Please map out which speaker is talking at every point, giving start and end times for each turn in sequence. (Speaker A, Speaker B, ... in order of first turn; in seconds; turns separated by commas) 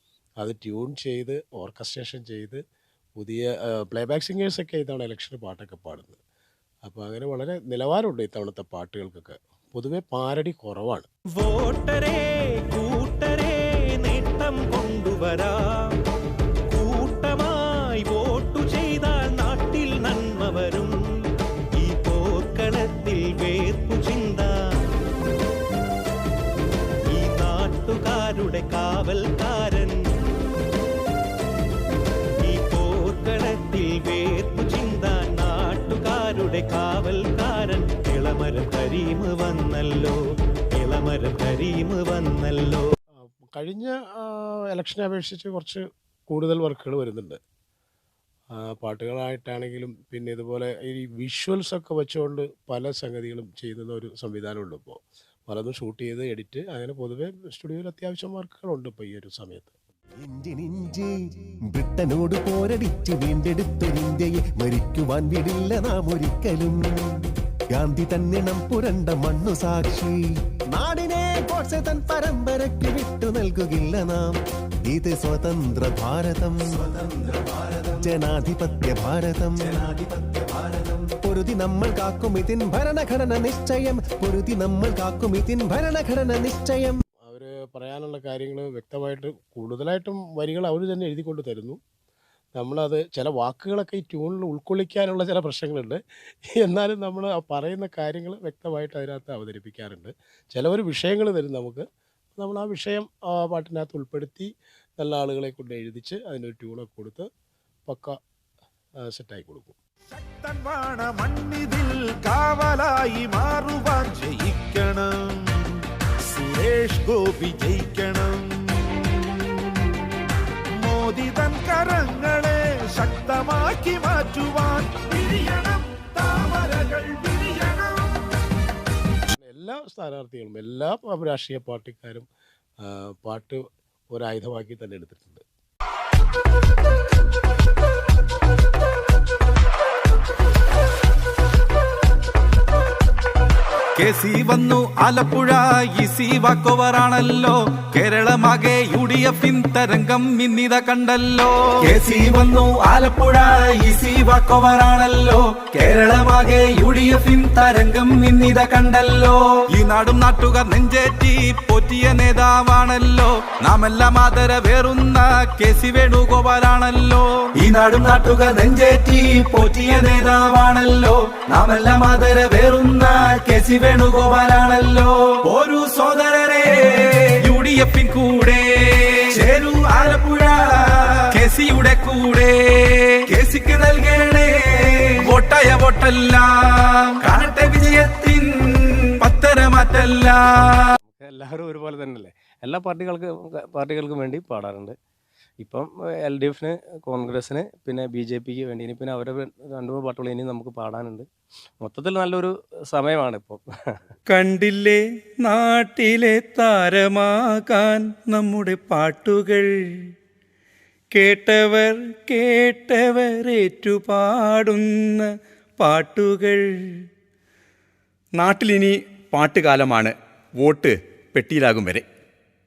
Speaker A: 0.4-2.6, Speaker A: 3.2-6.2, Speaker A: 6.9-11.1, Speaker B: 11.4-15.9, Speaker B: 16.7-21.0, Speaker B: 21.8-24.9, Speaker B: 27.1-30.2, Speaker B: 32.4-40.2, Speaker B: 40.8-42.9, Speaker A: 43.2-47.4, Speaker A: 48.6-59.7, Speaker C: 60.2-61.1, Speaker C: 61.7-87.0, Speaker A: 87.3-91.8, Speaker A: 92.5-96.0, Speaker A: 96.6-101.8, Speaker A: 102.4-107.3, Speaker A: 107.9-108.2, Speaker A: 109.1-109.8, Speaker D: 110.1-119.3, Speaker D: 120.7-128.2, Speaker A: 129.3-132.3, Speaker A: 132.8-133.6, Speaker A: 134.1-135.4, Speaker E: 144.0-190.9, Speaker F: 191.1-194.9, Speaker F: 195.6-201.2, Speaker F: 201.8-203.6, Speaker G: 204.3-209.7, Speaker G: 211.1-216.7, Speaker G: 218.3-222.1